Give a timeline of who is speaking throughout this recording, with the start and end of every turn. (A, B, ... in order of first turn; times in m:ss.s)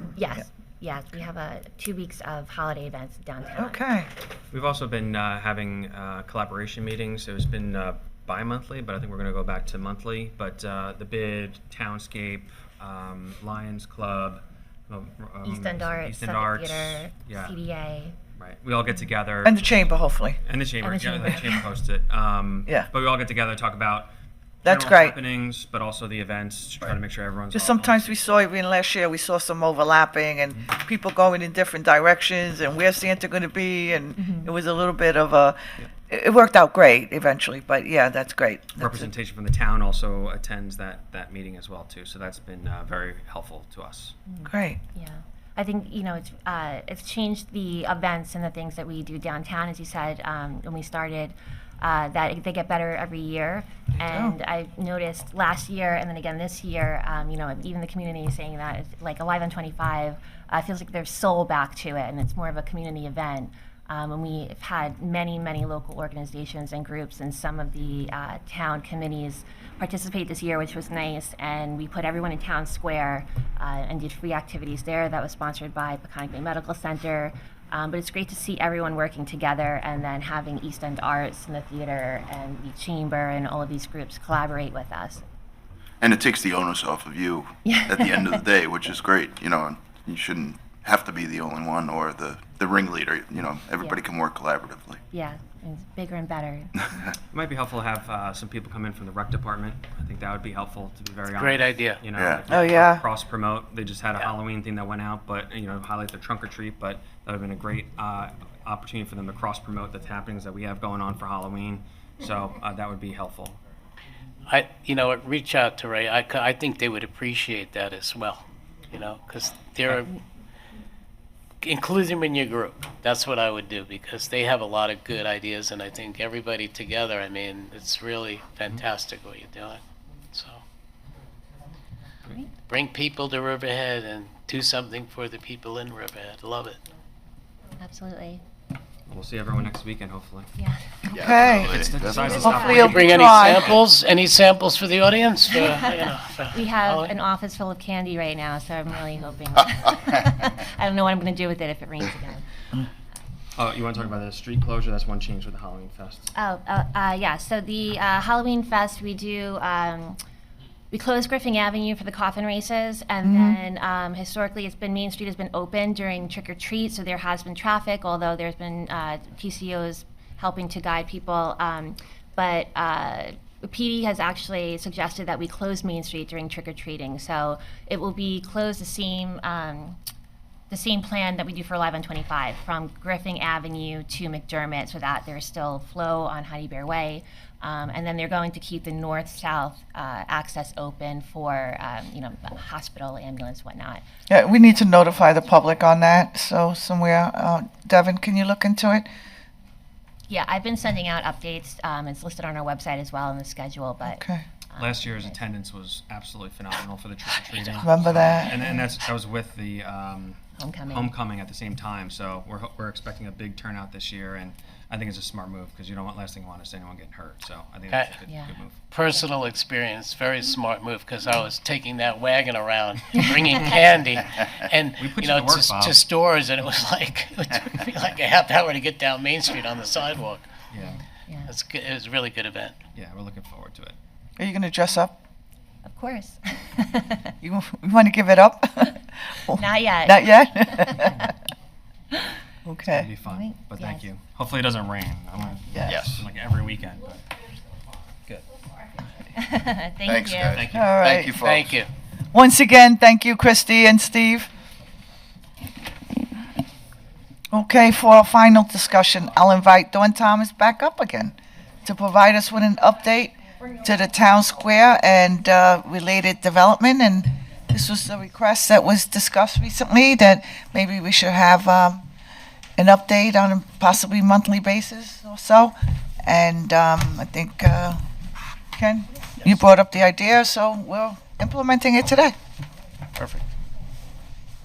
0:00.2-0:03.8 A
0:03.6-0:04.1 B
0:04.5-0:17.6 C
0:15.4-0:18.2 A
0:18.4-0:19.9 C
0:19.4-0:20.4 B
0:20.4-0:24.1 C
0:20.8-0:21.7 A
0:24.6-0:25.2 B
0:24.6-0:28.2 C
0:27.5-0:39.1 B
0:34.2-0:34.5 A
0:38.8-0:44.2 C
0:44.3-1:25.2 A
0:44.4-0:44.8 B
0:54.1-0:54.3 B
1:26.0-1:35.0 D
1:27.6-1:28.3 A
1:35.1-1:37.1 A
1:37.3-1:53.6 C
1:41.3-1:42.0 E
1:42.1-1:42.4 D
1:42.5-1:43.0 B
1:54.5-2:00.1 E
2:01.6-2:09.8 E
2:10.3-2:10.6 E
2:12.7-2:16.8 E
2:17.8-2:18.4 A
2:19.1-2:20.5 C
2:20.6-2:21.0 A
2:21.1-2:23.8 B
2:21.1-2:22.9 D
2:21.7-2:23.8 C
2:22.1-2:23.0 A
2:22.8-2:27.1 E
2:25.5-2:25.9 A
2:26.5-2:32.4 A
2:33.6-2:36.3 C
2:36.3-2:40.2 A
2:40.9-3:00.0 A
2:43.2-2:43.6 B
3:00.7-3:14.0 A
3:14.3-3:19.1 B
3:20.3-3:24.2 A
3:24.0-3:24.4 B
3:24.7-3:25.4 A
3:24.8-3:38.8 C
3:27.8-3:28.6 B
3:30.6-3:31.1 A
3:37.9-3:38.2 E
3:38.2-3:38.6 A
3:38.9-3:50.6 E
3:45.0-3:46.0 C
3:50.7-3:51.0 C
3:50.7-3:51.5 A
3:51.4-3:52.8 E
3:52.9-3:54.0 C
3:54.4-3:55.1 B
3:55.8-3:57.3 A
3:57.4-4:01.3 B
3:59.5-4:01.3 A
4:02.6-4:03.1 B
4:02.9-4:07.2 C
4:03.2-4:04.1 A
4:05.7-4:06.0 B
4:05.9-4:06.2 D
4:09.3-4:10.6 A
4:10.1-4:11.7 D
4:10.5-4:11.0 C
4:10.7-4:11.4 B
4:11.4-4:11.9 E
4:12.3-4:14.5 B
4:17.5-4:32.1 B
4:32.8-4:38.0 B
4:38.8-4:42.4 B
4:43.2-4:43.4 E